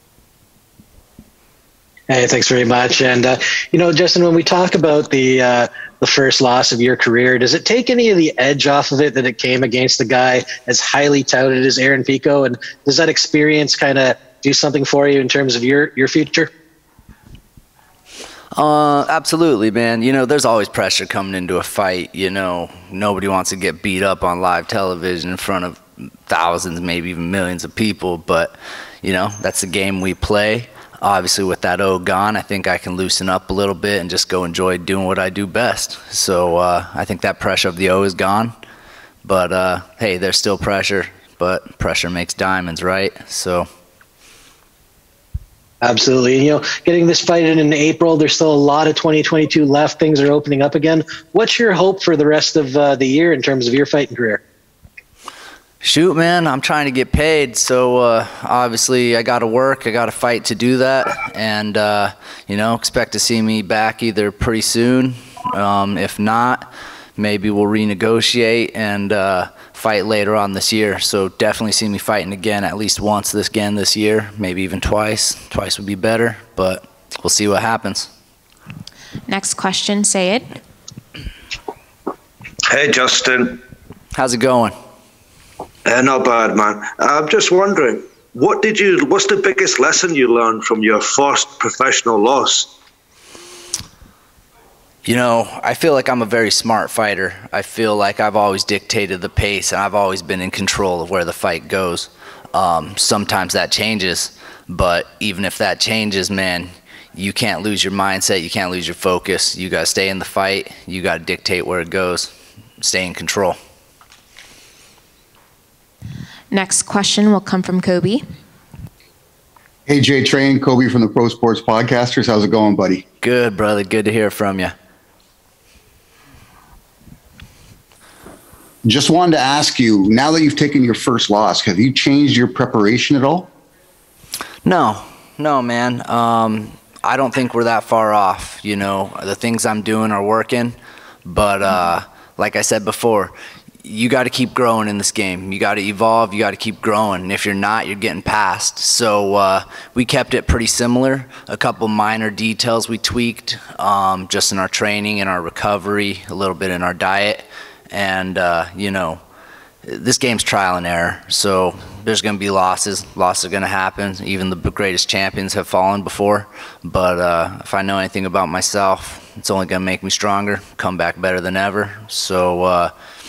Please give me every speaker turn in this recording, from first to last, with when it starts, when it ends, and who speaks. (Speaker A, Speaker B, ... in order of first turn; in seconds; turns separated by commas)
Speaker A: 2.1-16.5, Speaker B: 18.5-38.5, Speaker B: 39.2-43.7, Speaker A: 45.8-54.4, Speaker B: 55.8-78.1, Speaker C: 79.3-80.5, Speaker D: 82.7-83.6, Speaker B: 84.2-84.7, Speaker D: 85.8-92.7, Speaker B: 95.0-113.6, Speaker C: 116.5-118.2, Speaker E: 119.9-123.0, Speaker B: 123.2-124.7, Speaker E: 128.8-133.5, Speaker B: 134.6-159.2, Speaker B: 159.8-172.9